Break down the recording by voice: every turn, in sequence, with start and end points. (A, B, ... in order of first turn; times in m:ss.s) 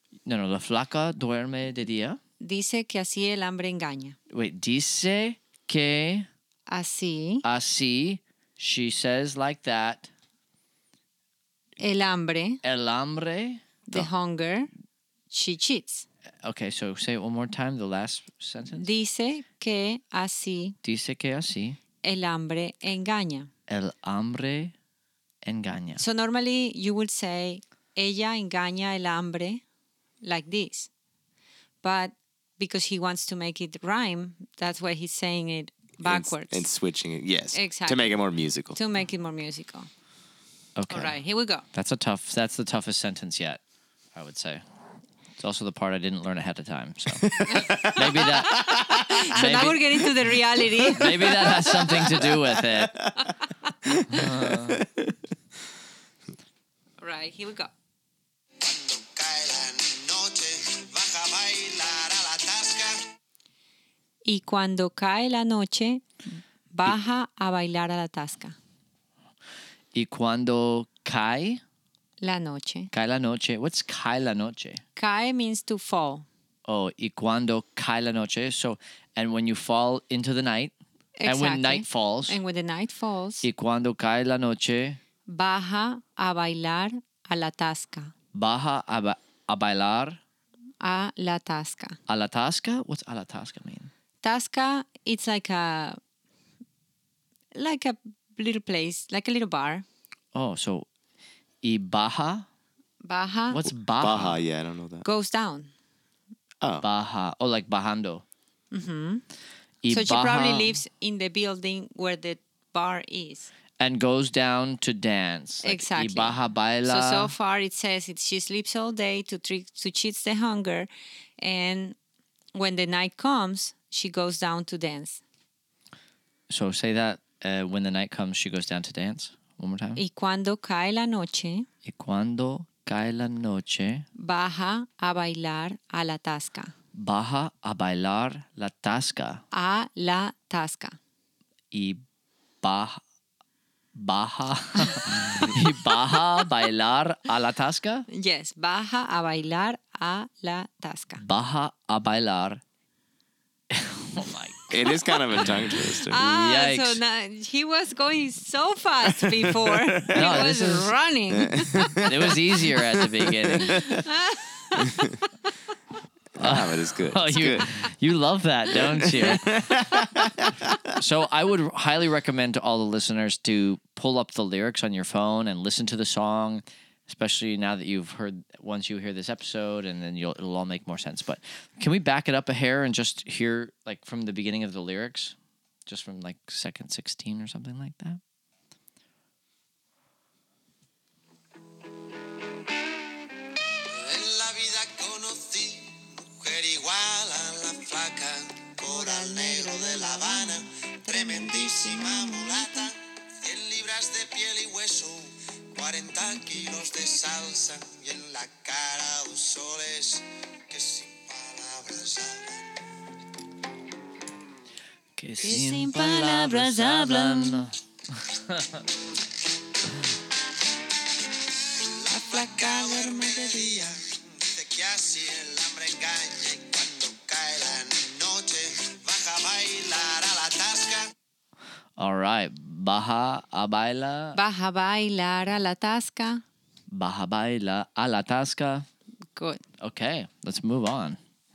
0:00.3-0:02.2 A
0:02.4-0:04.2 B
0:04.3-0:06.3 A
0:06.7-0:07.4 B
0:07.4-0:10.1 A
0:11.8-0:12.6 B
0:12.6-0:13.7 A
0:13.9-0:14.7 B
0:15.3-0:16.1 B
0:16.4-0:18.9 A
0:18.8-0:20.8 B
0:20.8-0:21.8 A
0:22.0-0:23.5 B
0:23.7-0:24.7 A
0:25.4-0:26.0 A
0:26.0-0:29.6 B
0:30.2-0:30.9 B
0:31.8-0:36.7 B
0:36.0-0:38.8 C
0:37.5-0:38.2 B
0:38.8-0:39.9 B
0:40.8-0:41.2 A
0:40.9-0:41.6 B
0:41.7-0:43.6 A
0:44.2-0:44.6 A
0:45.4-0:48.7 A
0:47.2-0:49.4 C
0:47.5-0:52.2 B
0:49.3-0:50.0 A
0:50.8-0:53.0 A
0:52.2-0:53.2 C
0:54.0-0:55.2 C
0:54.1-0:54.8 A
0:57.0-0:57.7 B
0:58.6-1:03.1 D
1:04.2-1:06.1 B
1:06.7-1:08.6 B
1:09.9-1:11.6 A
1:12.2-1:12.9 B
1:12.9-1:14.8 A
1:15.0-1:16.3 B
1:16.7-1:20.7 A
1:21.2-1:23.4 B
1:21.3-1:22.4 A
1:23.4-1:25.0 A
1:25.3-1:28.1 B
1:28.3-1:30.2 A
1:30.8-1:32.0 B
1:32.1-1:33.9 A
1:34.2-1:36.0 B
1:37.5-1:39.8 B
1:40.3-1:40.9 A
1:41.6-1:42.5 A
1:43.0-1:43.6 B
1:43.5-1:44.4 A
1:43.7-1:45.0 C
1:45.0-1:45.7 B
1:46.8-1:48.2 A
1:48.7-1:49.2 B
1:49.8-1:50.8 A
1:49.9-1:53.5 B
1:53.8-1:57.3 A
1:55.6-2:02.0 B
2:02.5-2:05.2 B
2:06.5-2:10.0 A
2:10.0-2:11.7 B
2:11.8-2:14.1 A
2:14.2-2:16.7 B
2:16.9-2:19.4 A
2:19.5-2:21.0 B
2:21.7-2:22.0 A
2:22.6-2:23.0 A
2:24.0-2:28.1 A
2:28.1-2:31.2 B
2:31.2-2:32.6 A
2:33.7-2:34.8 A
2:34.7-2:36.2 C
2:35.4-2:37.0 A
2:35.7-2:42.0 B
2:39.1-2:40.3 C
2:40.1-2:40.9 A
2:41.3-2:42.3 C
2:42.0-2:43.8 A
2:43.0-2:44.1 C
2:43.7-2:44.9 B
2:44.8-2:45.2 C
2:46.4-2:47.7 C
2:46.4-2:49.9 A
2:48.7-2:50.8 C
2:50.9-3:05.4 A
3:05.9-3:08.2 A
3:13.9-3:32.8 D
3:18.8-3:22.9 B
3:35.2-3:38.8 A
3:35.4-3:37.6 B
3:41.7-3:51.1 D
3:42.1-3:44.0 B
3:52.0-3:54.4 A
3:54.4-3:56.4 B
3:56.9-3:58.9 A
3:59.4-3:59.6 B
3:59.8-4:01.2 A